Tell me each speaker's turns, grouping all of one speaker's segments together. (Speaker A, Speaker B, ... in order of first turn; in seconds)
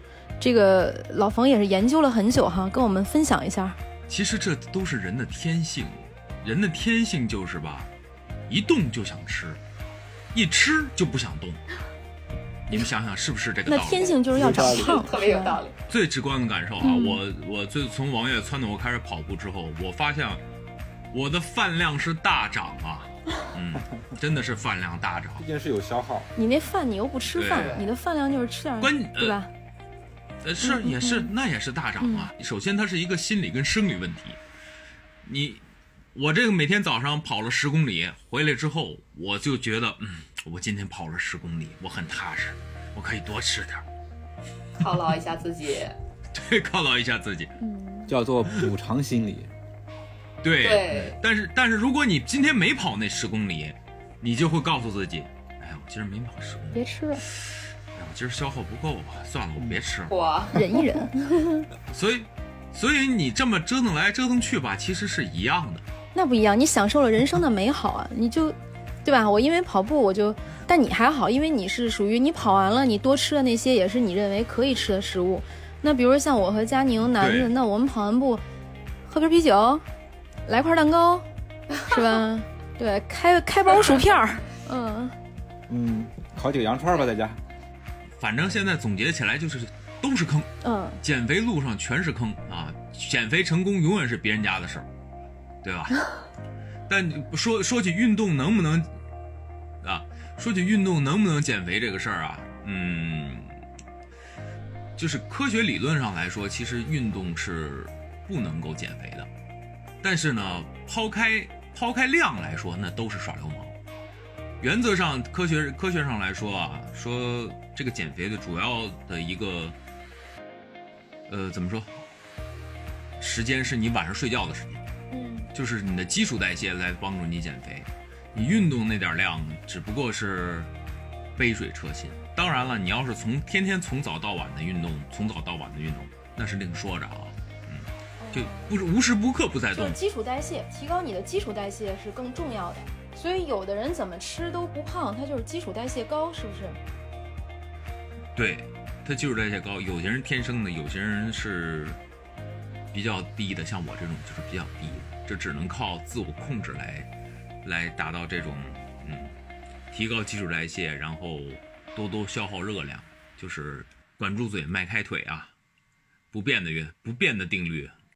Speaker A: 0.4-3.8, 13.7-15.6, 16.8-17.2, 26.4-29.5, 30.6-31.3, 32.0-32.3, 47.6-48.1, 56.8-57.2, 60.5-61.6, 66.2-78.4, 79.1-79.8, 80.5-81.2, 81.9-85.2, 90.6-91.0, 125.1-125.5, 138.2-138.7, 139.7-146.8
Speaker B: 4.1-7.9, 8.5-9.6, 10.3-11.6, 12.7-14.1, 15.9-20.4, 21.1-25.5, 27.3-27.8, 28.8-29.4, 30.4-34.4, 35.2-35.6, 36.1-43.9, 46.3-47.5, 50.4-60.1, 61.9-65.8, 77.2-77.5, 88.2-90.5, 91.0-94.9, 95.6-96.1, 96.9-98.9, 99.8-103.5, 105.0-109.3, 110.0-113.8, 114.6-119.8, 121.3-121.9, 123.2-124.8, 125.5-130.7, 131.4-140.0, 148.3-152.0, 152.9-157.1, 157.6-159.3, 159.9-165.5, 166.3-167.9
Speaker C: 14.0-15.8, 27.5-27.9, 44.8-46.0, 50.6-51.2, 60.1-60.6
Speaker D: 14.3-15.1, 25.4-26.3, 48.1-49.5, 85.7-87.4